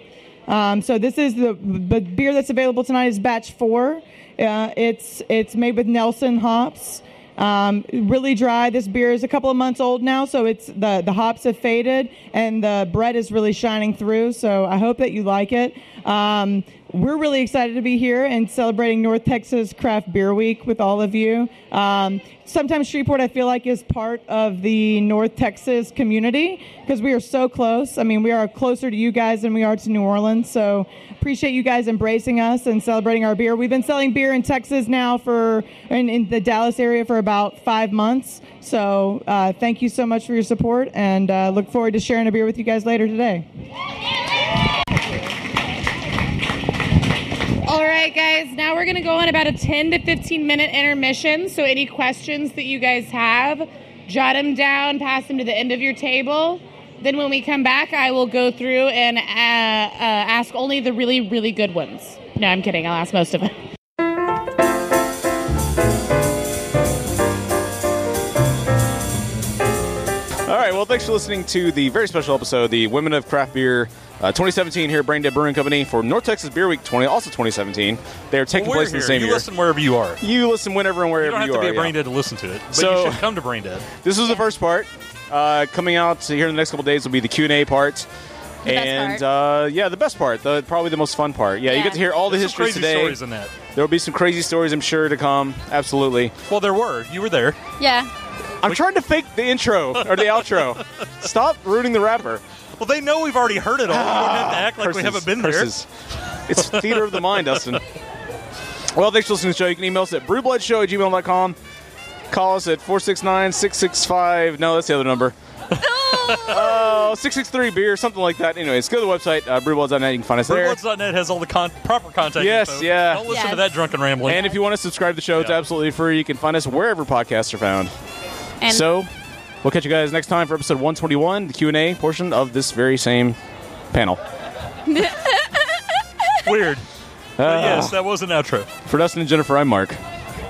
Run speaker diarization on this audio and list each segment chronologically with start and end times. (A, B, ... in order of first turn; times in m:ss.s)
0:00.5-0:43.4 A
0:47.6-1:03.6 B
1:10.5-1:19.5 C
1:18.5-1:20.2 D
1:20.2-1:22.0 C
1:21.2-1:23.9 D
1:22.7-1:23.2 C
1:24.0-1:28.1 C
1:28.6-1:29.2 E
1:28.6-1:33.2 C
1:31.6-1:32.0 E
1:32.2-1:33.5 D
1:33.7-1:36.3 C
1:36.5-1:37.6 D
1:37.8-1:38.1 E
1:38.6-1:42.4 C
1:42.8-1:45.7 D
1:43.9-1:45.9 C
1:46.5-1:47.8 C
1:46.7-1:47.4 D
1:48.9-1:51.6 C
1:52.3-1:55.3 C
1:55.8-1:56.9 E
1:56.2-1:56.8 D
1:56.5-2:00.8 C
2:00.5-2:04.5 D
2:02.4-2:03.4 C
2:03.3-2:03.7 E
2:04.2-2:07.9 C
2:08.7-2:09.1 C
2:09.6-2:13.4 C
2:13.9-2:14.2 C
2:14.9-2:15.6 E
2:16.4-2:16.8 D
2:17.4-2:18.0 C
2:17.4-2:18.7 D
2:18.8-2:20.0 C